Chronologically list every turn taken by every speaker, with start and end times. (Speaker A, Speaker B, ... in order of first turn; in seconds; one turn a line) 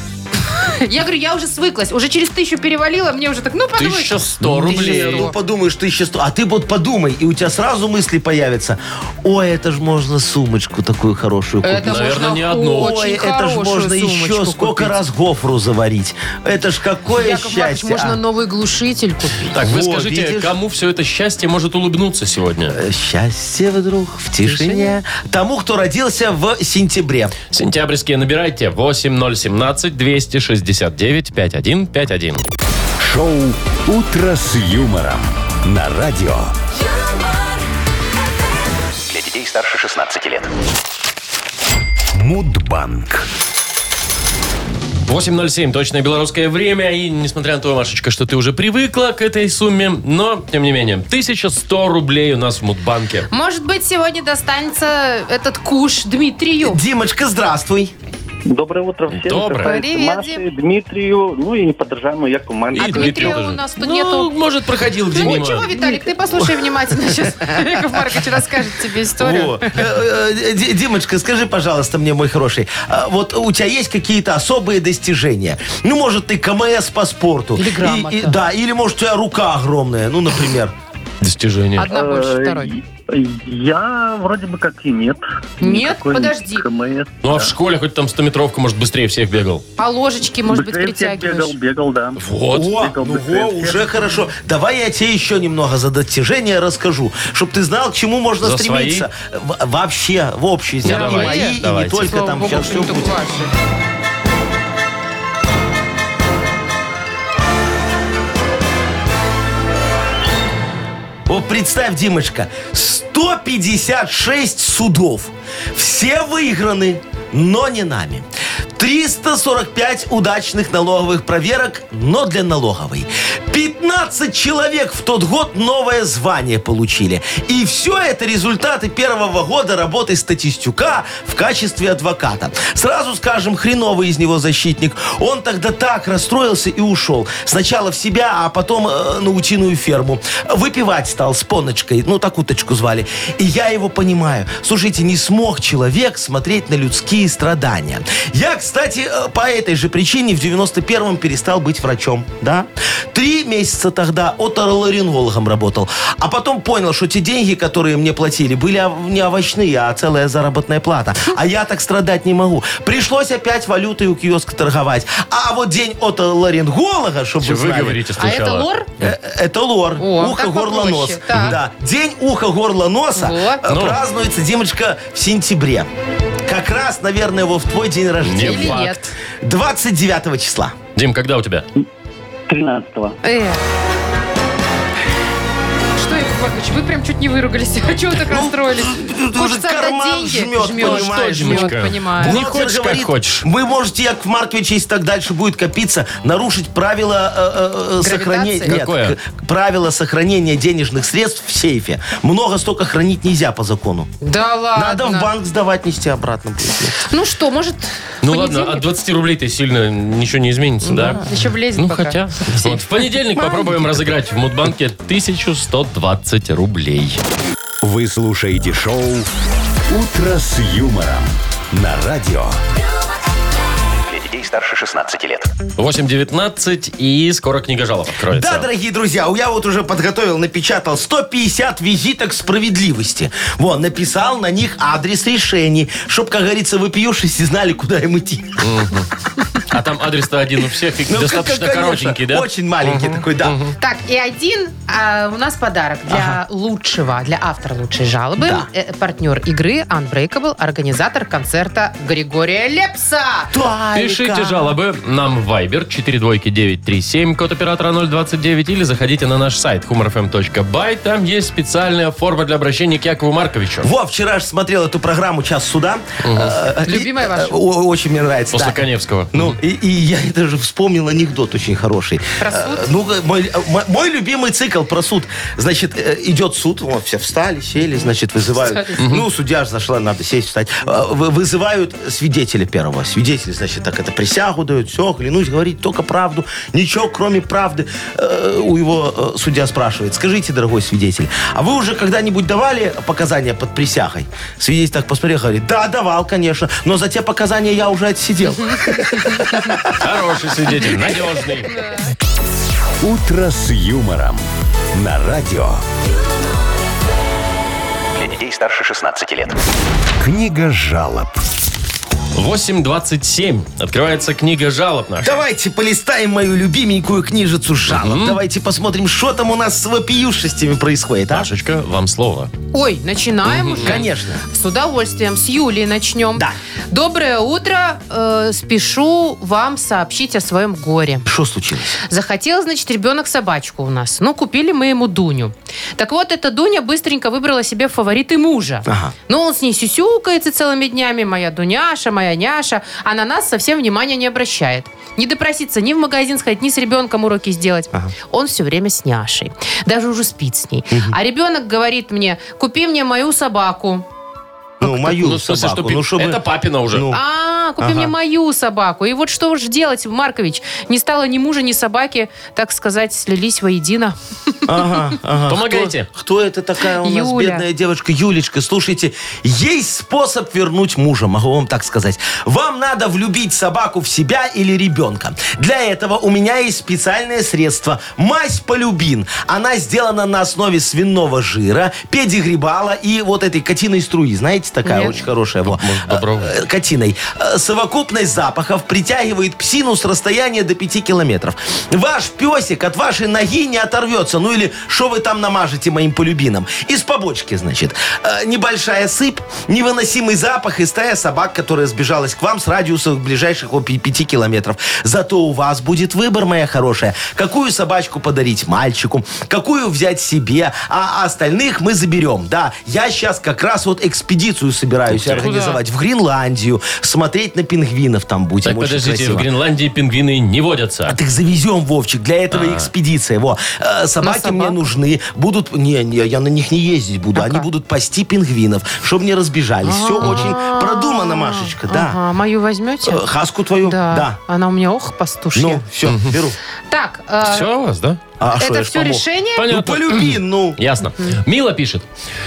Speaker A: 0.5-5.3
Speaker B: 3.8-5.3
Speaker C: 4.4-18.2
Speaker A: 11.6-15.0
Speaker B: 11.8-12.9
Speaker A: 17.1-19.5
Speaker B: 19.5-22.8
Speaker C: 19.6-20.5
Speaker C: 22.7-27.4
Speaker A: 24.4-25.0
Speaker B: 27.5-32.4
Speaker D: 33.0-36.5
Speaker E: 39.1-40.5
Speaker D: 42.1-43.3
Speaker B: 45.1-53.3
Speaker A: 53.3-56.8
Speaker C: 56.6-57.9
Speaker F: 58.5-63.4
Speaker B: 59.1-59.8
Speaker A: 59.6-60.5
Speaker B: 62.7-65.7
Speaker A: 62.8-64.3
Speaker A: 65.1-69.6
Speaker C: 69.2-80.7
Speaker A: 77.6-78.4
Speaker B: 81.2-81.9
Speaker A: 81.8-82.7
Speaker F: 81.9-87.5
Speaker A: 85.6-86.7
Speaker B: 87.2-89.6
Speaker A: 89.8-91.5
Speaker F: 90.5-94.0
Speaker B: 92.2-92.9
Speaker C: 92.5-103.1
Speaker B: 98.4-99.0
Speaker B: 100.8-102.1
Speaker A: 100.8-103.5
Speaker C: 111.3-168.2
Speaker B: 167.4-169.1
Speaker A: 168.2-168.9
Speaker C: 169.0-175.9
Speaker A: 170.0-171.6
Speaker B: 171.3-171.6
Speaker A: 173.1-173.6
Speaker B: 173.7-174.0
Speaker C: 176.4-180.7
Speaker B: 178.2-179.1
Speaker A: 178.4-179.1
Speaker B: 180.9-181.7
Speaker F: 182.5-183.2
Speaker A: 183.2-183.6
Speaker A: 185.9-192.4
Speaker C: 188.3-204.1
Speaker B: 190.8-193.4
Speaker A: 198.0-198.8
Speaker B: 198.7-199.2
Speaker A: 204.2-205.3
Speaker C: 204.7-207.1
Speaker A: 207.0-208.9
Speaker B: 208.2-211.2
Speaker A: 210.9-212.8
Speaker B: 211.8-217.2
Speaker A: 213.3-213.8
Speaker D: 217.8-219.3
Speaker D: 219.9-222.6
Speaker E: 224.1-225.5
Speaker B: 225.8-228.7
Speaker C: 228.3-238.7
Speaker B: 238.6-239.1
Speaker B: 239.7-243.7
Speaker C: 241.1-243.6
Speaker A: 243.8-253.5
Speaker C: 246.1-246.4
Speaker C: 248.4-248.7
Speaker C: 253.5-254.7
Speaker B: 253.9-263.9
Speaker C: 263.8-300.0
Speaker B: 266.2-266.6
Speaker A: 266.8-267.6
Speaker B: 268.5-269.6
Speaker A: 272.4-272.9
Speaker A: 278.6-279.0
Speaker B: 279.0-279.2
Speaker A: 299.2-299.5
Speaker B: 299.9-301.7
Speaker A: 301.6-302.1
Speaker D: 303.0-304.4
Speaker D: 304.9-305.8
Speaker E: 308.1-309.6
Speaker D: 310.2-311.4
Speaker B: 312.3-315.4
Speaker C: 315.2-321.5
Speaker B: 317.9-318.4
Speaker B: 321.3-322.5
Speaker A: 322.7-331.3
Speaker B: 323.5-324.0
Speaker C: 323.8-324.4
Speaker C: 331.2-332.0
Speaker A: 332.1-354.0
Speaker C: 338.9-339.1
Speaker C: 350.9-351.2
Speaker C: 354.8-357.2
Speaker B: 354.8-357.1
Speaker A: 357.1-364.6
Speaker C: 357.8-358.1
Speaker C: 364.6-419.5
Speaker B: 365.5-366.1
Speaker A: 367.0-367.6
Speaker A: 384.8-385.1
Speaker B: 385.6-386.6
Speaker B: 415.1-415.5
Speaker A: 415.4-415.8
Speaker B: 418.6-421.1
Speaker C: 421.1-432.2
Speaker B: 422.5-422.9
Speaker A: 424.2-424.8
Speaker A: 427.3-427.7
Speaker A: 429.8-433.2
Speaker C: 433.0-434.4
Speaker A: 433.8-435.8
Speaker C: 435.5-436.6
Speaker B: 436.1-436.4
Speaker A: 436.9-437.7
Speaker B: 437.4-438.2
Speaker C: 438.4-440.8
Speaker A: 438.6-439.6
Speaker B: 439.6-442.1